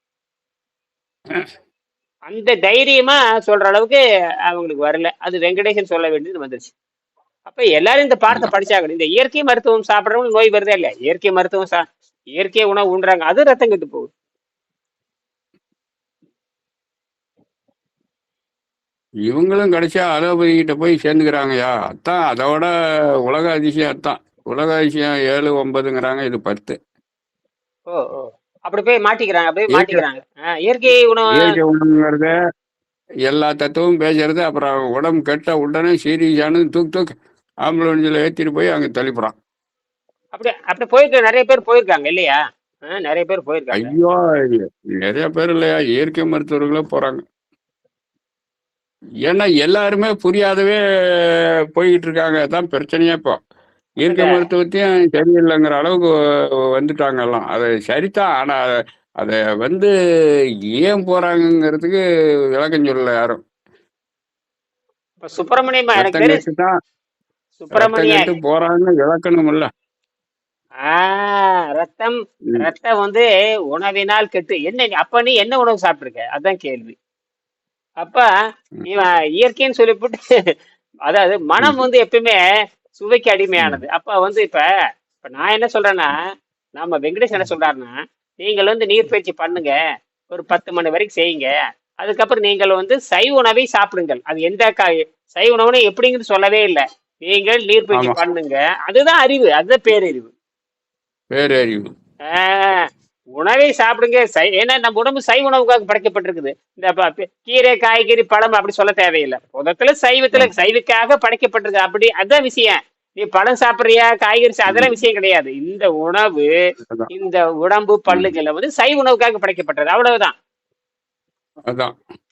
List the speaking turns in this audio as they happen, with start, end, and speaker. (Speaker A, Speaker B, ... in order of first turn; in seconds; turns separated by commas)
Speaker A: 2.3-6.7, Speaker A: 7.5-11.8, Speaker A: 12.3-14.1, Speaker B: 19.3-22.7, Speaker B: 23.3-26.8, Speaker A: 27.9-31.6, Speaker B: 29.7-30.0, Speaker B: 31.4-32.3, Speaker B: 33.3-37.1, Speaker B: 37.7-39.3, Speaker A: 40.3-43.9, Speaker B: 43.7-47.2, Speaker B: 49.2-50.8, Speaker B: 51.8-53.4, Speaker A: 54.0-54.5, Speaker B: 54.0-56.1, Speaker B: 56.8-58.6, Speaker B: 59.2-59.9, Speaker B: 60.8-62.0, Speaker B: 62.6-63.4, Speaker A: 65.2-66.4, Speaker B: 66.0-66.7, Speaker A: 67.6-68.3, Speaker B: 67.7-69.7, Speaker A: 70.8-76.9, Speaker A: 78.0-78.2, Speaker A: 78.9-80.2, Speaker A: 81.1-82.4, Speaker A: 82.9-84.6, Speaker A: 85.2-86.1, Speaker A: 86.8-89.8, Speaker A: 90.3-100.3, Speaker B: 101.3-101.9, Speaker A: 102.3-102.8, Speaker A: 103.4-116.5, Speaker A: 117.1-120.3, Speaker B: 121.7-121.9